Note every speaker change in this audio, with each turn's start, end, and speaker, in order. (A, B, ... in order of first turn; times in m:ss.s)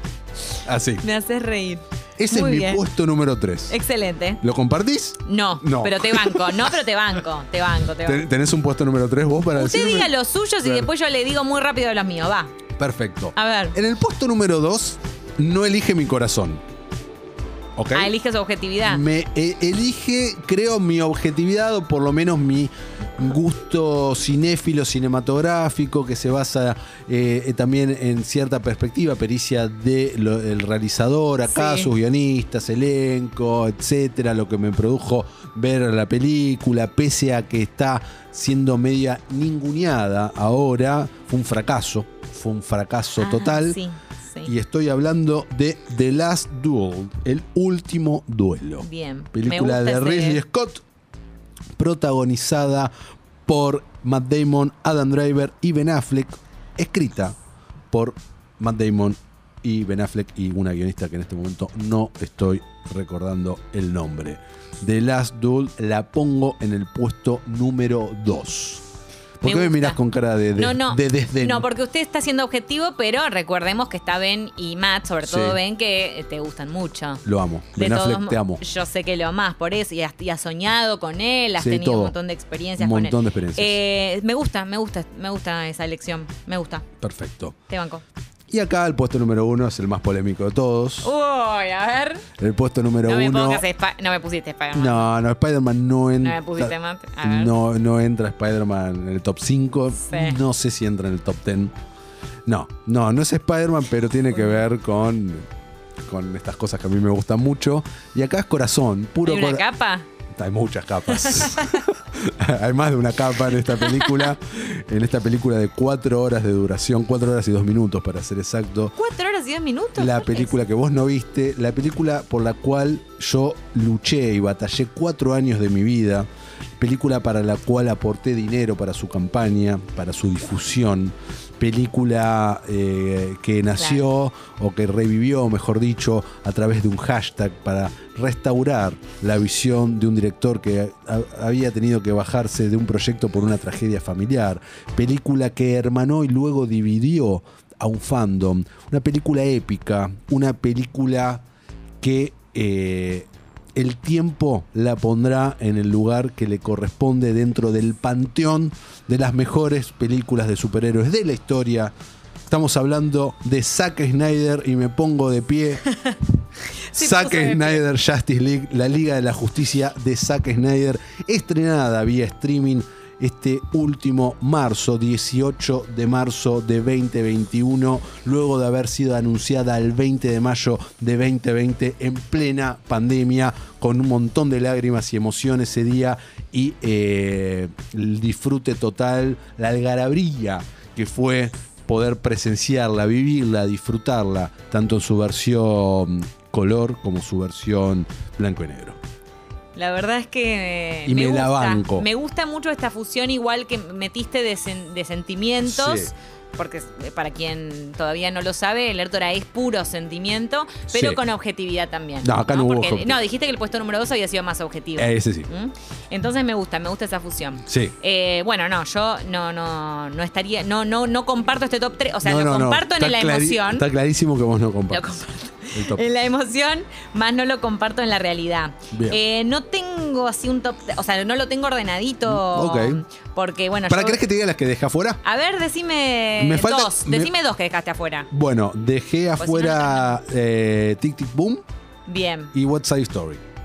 0:00.6-0:01.0 A
0:01.0-0:02.8 B
0:02.2-0:03.8 A
0:03.7-0:04.4 B
0:04.4-0:06.7 A
0:05.2-0:08.2 B
0:08.0-0:10.1 A
0:09.5-0:12.5 B
0:10.6-0:10.9 A
0:12.8-0:16.6 A
0:13.4-0:13.8 B
0:17.8-0:18.1 A
0:17.9-0:19.0 B
0:18.8-0:43.8 A
0:31.5-0:31.9 B
0:43.2-0:44.5 B
0:44.4-0:50.8 A
0:48.8-0:50.4 B
0:51.8-0:52.9 A
0:53.5-0:57.4 A
0:57.9-1:08.8 A
1:09.4-1:11.7 A
1:09.4-1:10.0 B
1:10.5-1:17.2 B
1:15.2-1:15.6 A
1:17.2-1:18.6 A
1:17.8-1:26.8 B
1:21.6-1:22.1 A
1:22.8-1:23.8 A
1:27.0-1:27.5 A
1:27.7-1:28.0 B
1:28.5-1:31.1 A
1:31.0-1:32.2 B
1:32.4-1:33.6 A
1:33.1-1:35.1 B
1:34.7-1:41.7 A
1:36.2-1:37.6 B
1:40.0-1:40.4 B
1:42.5-1:45.4 A
1:44.3-1:44.6 B
1:46.1-1:49.6 A
1:49.2-1:50.1 B
1:50.3-1:58.9 A
1:51.1-1:51.8 B
1:53.6-1:54.3 B
1:58.9-2:00.6 B
2:00.0-2:06.3 A
2:06.8-2:31.4 A
2:13.8-2:14.0 B
2:32.0-2:41.9 A
2:42.5-2:45.9 A
2:46.9-2:47.8 B
2:46.9-3:19.0 A
3:19.8-3:43.8 B
3:21.0-3:22.1 A
3:25.6-3:26.1 A
3:30.9-3:31.2 A
3:32.2-3:33.2 A
3:35.0-3:35.5 A
3:37.6-3:37.9 A
3:42.2-3:45.1 A
3:44.9-3:54.2 B
3:45.7-3:46.1 A
3:48.9-3:49.2 A
3:52.2-3:53.0 A
3:53.9-3:55.2 A
3:55.2-3:58.3 B
3:56.4-3:57.3 A
3:58.3-4:01.6 A
3:59.4-4:00.2 B
4:02.1-4:02.5 B
4:02.5-4:03.4 A